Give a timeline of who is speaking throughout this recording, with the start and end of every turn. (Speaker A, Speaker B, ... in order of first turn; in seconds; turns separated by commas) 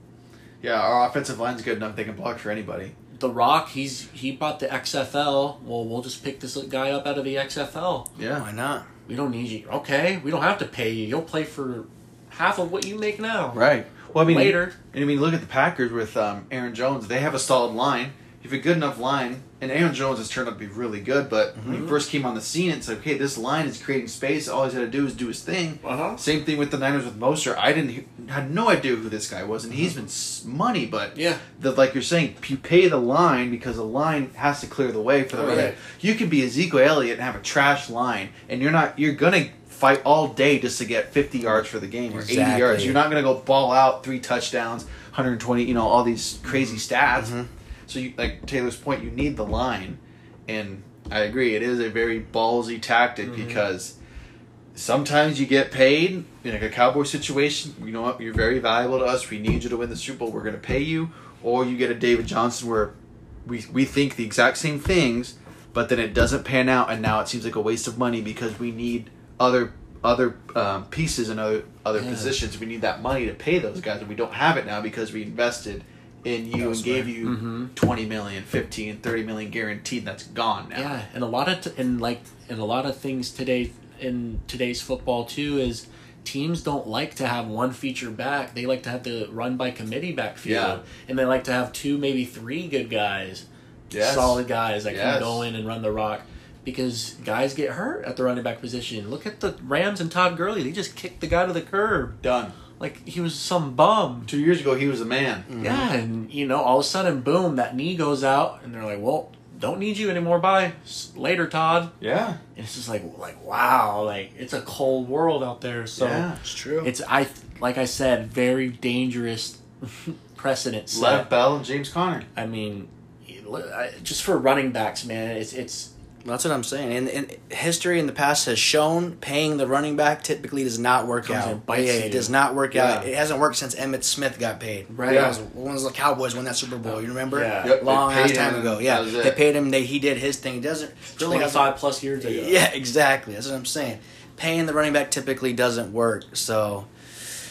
Speaker A: 0.6-2.9, Speaker B: 3.1-8.1, Speaker A: 8.2-8.4, Speaker C: 8.4-8.8, Speaker B: 9.1-14.8, Speaker A: 13.5-47.3, Speaker C: 21.6-21.9, Speaker B: 21.6-22.0, Speaker B: 25.8-26.2, Speaker B: 31.1-31.4, Speaker B: 35.3-35.8, Speaker C: 35.4-35.7, Speaker C: 42.1-43.0, Speaker C: 47.1-47.5, Speaker A: 47.9-53.9, Speaker B: 53.2-53.6, Speaker A: 54.7-62.9, Speaker A: 63.4-80.9, Speaker B: 71.9-72.3, Speaker B: 76.6-77.7, Speaker B: 80.7-93.4, Speaker A: 90.4-90.8, Speaker A: 93.9-95.4, Speaker B: 94.0-102.2, Speaker A: 102.2-102.6, Speaker B: 102.8-104.3, Speaker A: 104.3-105.5, Speaker C: 105.5-105.9, Speaker B: 105.6-111.9, Speaker A: 112.0-112.4, Speaker B: 112.5-116.3, Speaker A: 116.0-116.4, Speaker C: 116.4-116.9, Speaker B: 116.8-121.3, Speaker A: 120.9-122.3, Speaker B: 122.3-125.9, Speaker C: 126.2-146.9, Speaker B: 131.2-133.1, Speaker B: 134.9-135.3, Speaker A: 135.1-135.3, Speaker B: 137.3-137.8, Speaker A: 137.6-139.4, Speaker B: 141.2-142.6